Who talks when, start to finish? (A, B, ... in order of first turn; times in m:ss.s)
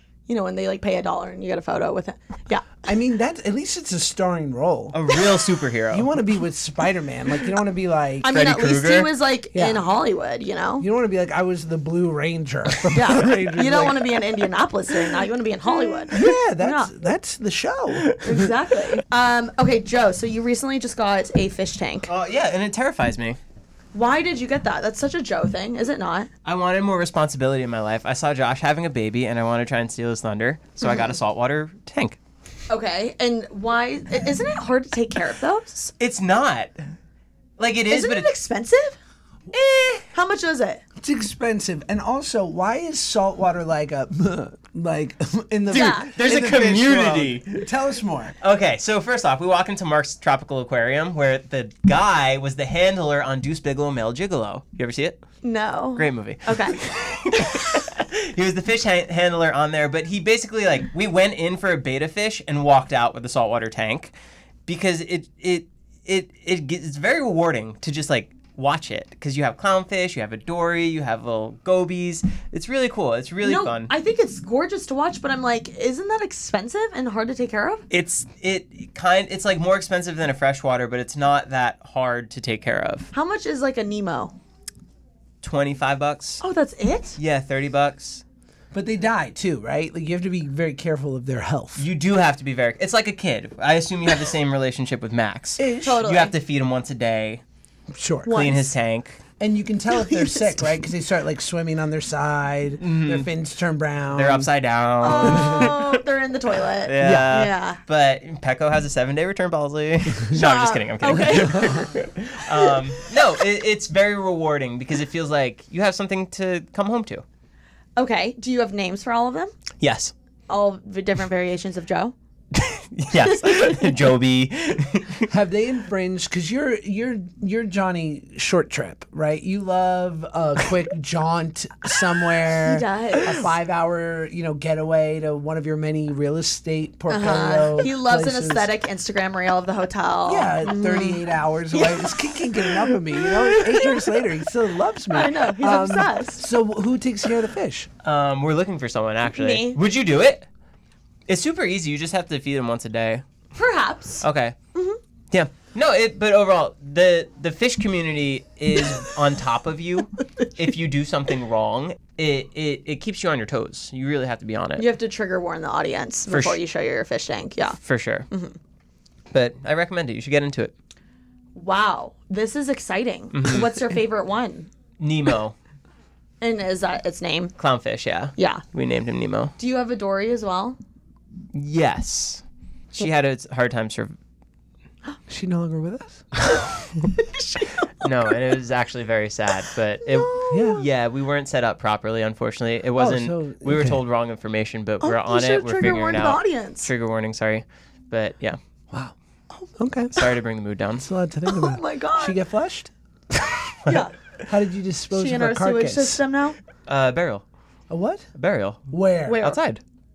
0:00.3-0:02.8 A
0:02.8-0:05.0 B
0:04.9-0:06.1 C
0:05.9-0:08.4 B
0:08.2-0:10.9 A
0:08.3-0:09.1 C
0:09.5-0:09.8 B
0:10.8-0:14.1 B
0:12.9-0:16.9 A
0:16.1-0:18.2 B
0:18.2-0:22.1 A
0:22.1-0:23.4 C
0:23.9-0:26.3 A
0:26.4-0:32.2 C
0:30.8-0:31.1 A
0:32.7-0:35.9 A
0:36.0-0:36.8 C
0:37.6-0:38.3 C
0:37.9-0:39.0 A
0:39.5-0:40.8 A
0:41.0-0:48.4 B
0:45.7-0:47.7 C
0:45.7-0:46.1 A
0:48.4-0:55.2 C
0:55.4-0:56.8 A
0:56.0-1:04.1 C
1:04.7-1:13.9 C
1:13.4-1:17.8 A
1:17.9-1:23.1 C
1:23.1-1:24.4 A
1:25.4-1:26.4 C
1:26.4-1:27.2 A
1:27.2-1:28.2 C
1:28.7-1:31.9 B
1:31.8-1:37.4 C
1:35.6-1:36.0 B
1:35.8-1:36.3 A
1:37.9-1:38.5 B
1:38.3-1:38.7 A
1:38.3-1:39.2 C
1:39.4-1:44.5 B
1:40.0-1:40.5 A
1:42.8-1:43.3 C
1:44.1-1:46.0 C
1:45.0-1:47.8 A
1:45.1-1:45.7 B
1:46.8-1:57.2 C
1:47.0-1:47.4 B
1:50.3-1:51.9 A
1:51.1-1:51.8 B
1:58.0-1:59.5 A
1:59.8-2:00.1 C
2:00.5-2:02.2 A
2:02.6-2:05.3 C
2:03.3-2:03.8 A
2:05.3-2:18.7 B
2:12.6-2:13.5 A
2:17.1-2:22.2 A
2:20.2-2:27.9 B
2:25.1-2:26.4 A
2:28.0-2:30.5 C
2:29.3-2:29.8 A
2:31.3-2:33.2 C
2:33.6-2:34.2 A
2:34.2-2:34.6 C
2:35.3-2:44.9 C
2:44.8-2:47.8 A
2:46.3-2:46.6 C
2:47.8-2:48.3 C
2:48.3-2:48.6 A
2:49.3-2:50.7 C
2:51.6-2:54.7 A
2:53.3-2:53.8 C
2:55.0-2:55.6 C
2:56.4-2:57.5 A
2:57.6-2:59.5 C
2:58.4-2:58.6 A
2:59.6-3:00.8 A
3:01.5-3:02.4 C
3:02.9-3:04.2 C
3:05.3-3:06.3 B
3:07.1-3:08.1 A
3:08.0-3:18.6 C
3:10.0-3:10.8 A
3:10.5-3:10.9 B
3:13.0-3:14.0 B
3:15.0-3:16.9 A
3:19.8-3:20.2 B
3:20.1-3:21.0 C
3:21.0-3:22.9 B
3:21.5-3:22.4 A
3:23.9-3:24.2 A
3:24.4-3:26.2 B
3:25.1-3:26.6 A
3:26.9-3:27.4 C
3:27.9-3:28.3 B
3:28.4-3:29.8 C
3:28.9-3:29.5 B
3:29.3-3:29.6 A